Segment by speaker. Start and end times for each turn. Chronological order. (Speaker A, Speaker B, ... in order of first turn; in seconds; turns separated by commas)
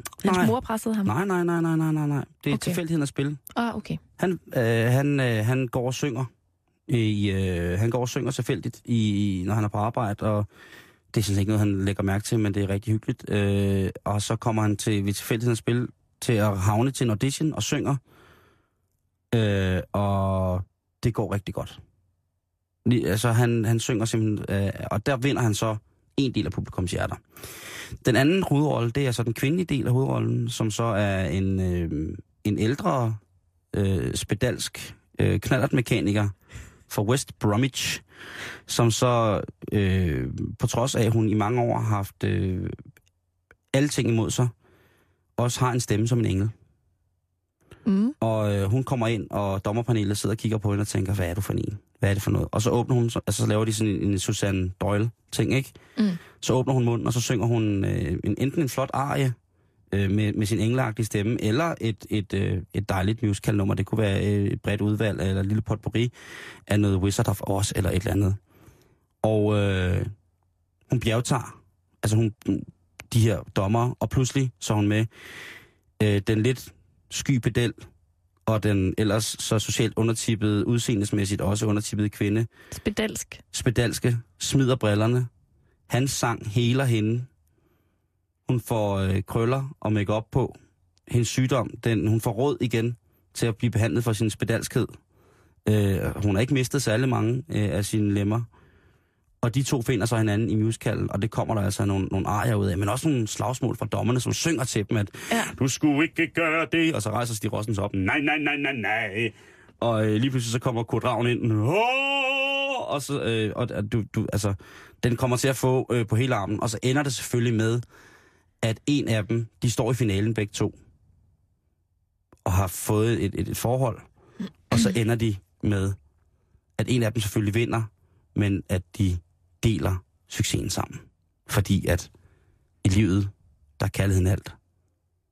Speaker A: 0.2-3.4, Speaker B: 0.2-1.1, Speaker B: 2.5-2.8, Speaker B: 3.5-4.0, Speaker A: 4.2-6.3, Speaker A: 6.9-10.5, Speaker A: 11.1-18.0, Speaker A: 19.3-21.8, Speaker A: 22.9-27.2, Speaker A: 28.0-33.2, Speaker A: 33.7-36.3, Speaker A: 36.9-38.0, Speaker A: 38.7-42.8, Speaker A: 43.7-44.5, Speaker A: 45.4-46.5, Speaker B: 47.9-48.2, Speaker A: 48.2-55.8, Speaker A: 56.4-59.4, Speaker A: 59.9-66.1, Speaker A: 66.7-68.4, Speaker A: 69.2-70.1, Speaker A: 70.9-75.1, Speaker A: 76.0-77.8, Speaker A: 78.5-82.5, Speaker B: 82.7-83.4, Speaker A: 83.5-85.3, Speaker A: 85.9-87.3, Speaker A: 88.5-90.6, Speaker A: 91.1-95.0, Speaker A: 95.7-98.5, Speaker A: 99.4-117.8, Speaker A: 118.6-120.8, Speaker A: 122.5-124.1, Speaker A: 124.7-126.0, Speaker A: 126.8-132.1, Speaker A: 132.8-134.6